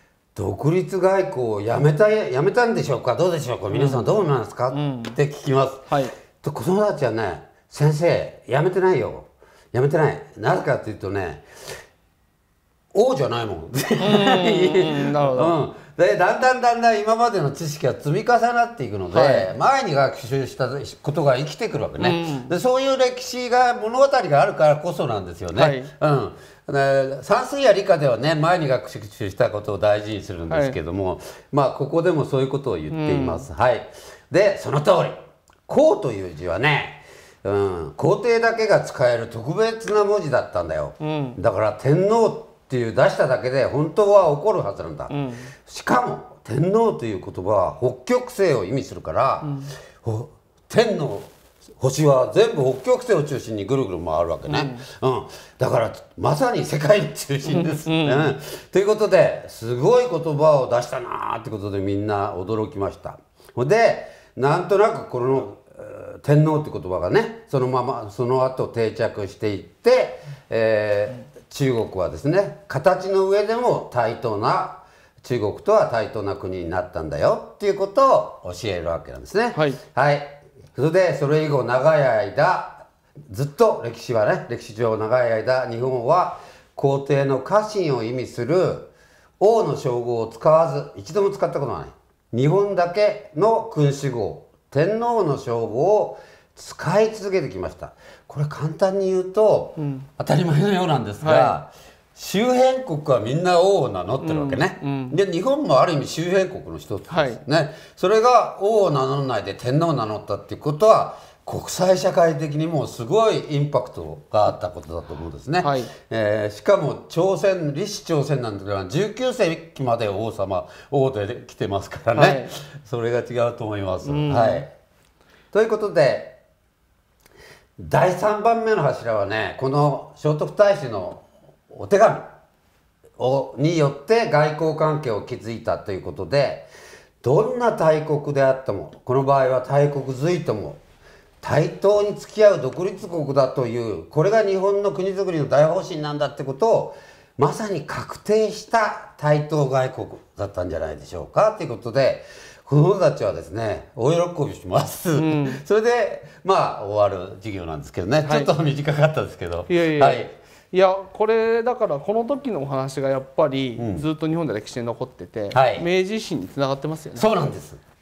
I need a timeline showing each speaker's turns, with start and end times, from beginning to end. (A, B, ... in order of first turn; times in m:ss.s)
0:00.3-0:11.4 A
0:03.7-0:05.2 B
0:05.9-0:06.1 B
0:12.9-0:35.2 A
0:14.0-0:15.6 B
0:19.1-0:19.5 B
0:22.0-0:22.5 B
0:25.5-0:25.9 B
0:30.5-0:30.8 B
0:32.9-0:33.5 B
0:35.7-2:04.7 A
0:41.0-0:41.4 B
0:45.1-0:45.5 B
0:49.4-0:49.7 B
0:54.5-0:54.8 B
0:57.4-0:58.3 B
1:19.5-1:19.8 B
1:39.8-1:40.1 B
1:41.2-1:41.6 B
1:44.2-1:45.2 B
1:47.1-1:47.4 B
1:55.6-1:55.9 B
2:02.1-2:02.5 B
2:04.0-2:04.6 B
2:05.5-2:06.4 A
2:07.8-2:12.3 A
2:13.2-2:16.7 A
2:17.2-2:20.8 A
2:21.4-2:40.3 A
2:35.1-2:35.6 B
2:38.2-2:38.5 B
2:39.7-2:47.3 B
2:43.8-2:44.0 A
2:45.5-2:45.8 A
2:47.1-2:47.8 A